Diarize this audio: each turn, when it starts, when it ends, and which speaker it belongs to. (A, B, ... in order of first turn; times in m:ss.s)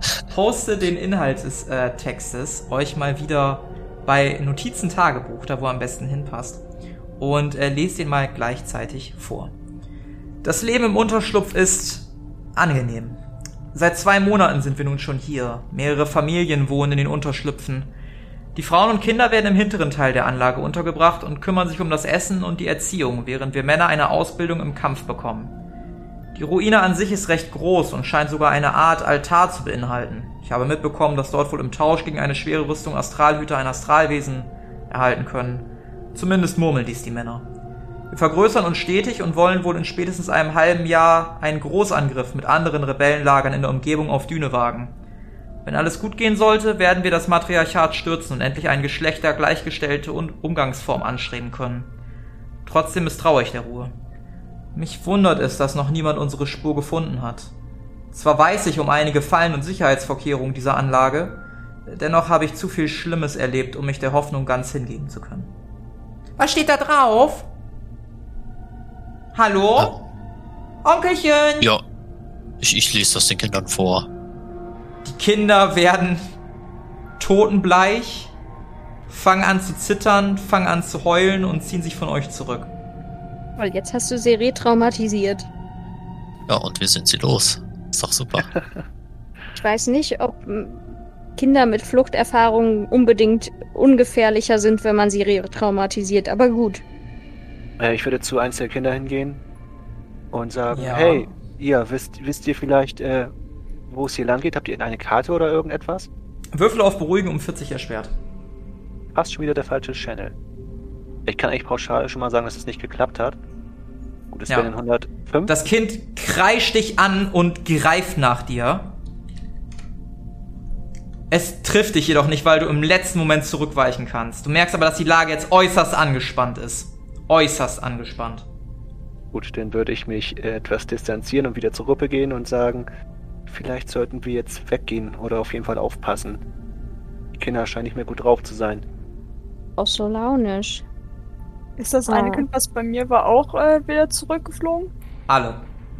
0:00.3-0:06.6 A
0:07.2-0:09.5 A
0:10.4-0:13.2 A
0:13.7-0:17.9 A
0:18.5-0:25.5 A
0:26.3-0:37.4 A
0:38.1-0:45.0 A
0:45.6-0:51.9 A
0:52.6-0:54.0 A
0:54.7-0:57.5 A
0:58.1-1:05.5 A
1:06.4-1:07.5 A
1:09.3-1:09.9 A
1:10.8-1:11.7 A
1:12.6-1:14.1 B
1:15.0-1:16.2 A
1:17.2-1:18.3 A
1:19.1-1:22.7 A
1:23.6-1:25.5 C
1:26.5-1:28.5 B
1:29.5-1:30.8 C
1:31.4-1:36.8 C
1:37.8-1:39.4 D
1:40.3-1:43.3 D
1:40.7-1:41.3 A
1:43.9-1:46.1 D
1:46.5-1:48.1 A
1:49.1-1:50.4 D
1:51.2-1:53.4 D
1:54.3-1:55.6 D
1:55.4-1:59.0 A
2:01.3-2:08.5 A
2:09.3-2:12.9 D
2:13.5-2:16.4 D
2:17.3-2:18.8 D
2:19.8-2:20.8 C
2:21.8-2:24.9 E
2:22.1-2:22.4 C
2:25.3-2:25.6 A